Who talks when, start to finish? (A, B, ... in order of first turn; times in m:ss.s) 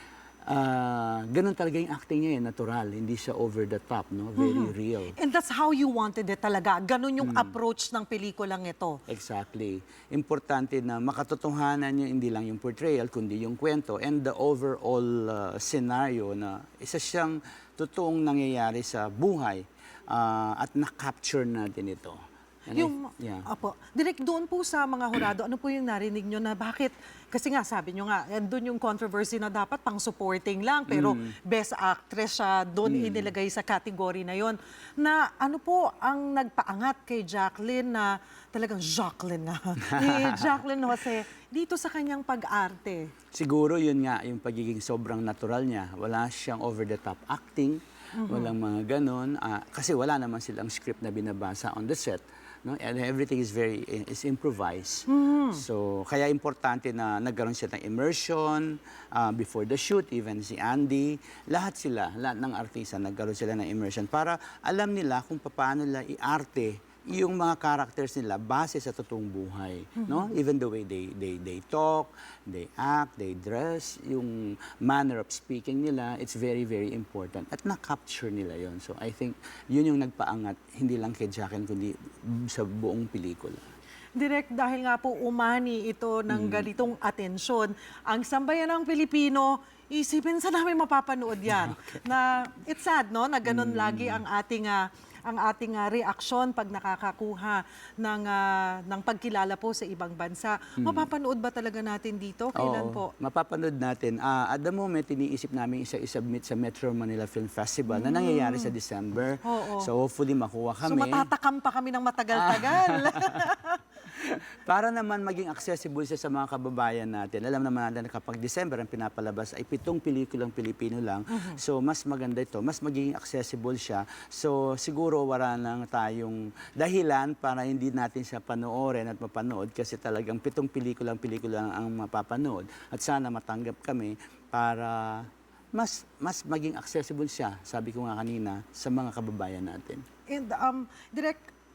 0:00.5-0:05.1 A
0:04.4-0:09.0 B
0:07.2-0:07.5 A
0:09.1-0:23.5 A
0:22.7-0:43.1 B
0:30.9-0:31.3 A
0:32.8-0:33.3 A
0:39.9-0:40.5 A
0:43.3-1:23.6 A
0:48.1-0:48.5 B
0:55.1-0:55.6 B
1:10.0-1:10.3 B
1:24.2-1:43.1 B
1:26.3-1:26.7 A
1:31.4-1:32.0 A
1:33.4-1:34.2 A
1:40.8-1:41.1 A
1:42.6-1:51.3 A
1:47.9-1:48.7 B
1:49.4-1:49.9 B
1:50.8-1:53.8 B
1:52.3-1:53.4 A
1:54.1-2:20.0 A
2:01.3-2:01.6 B
2:20.3-2:21.5 B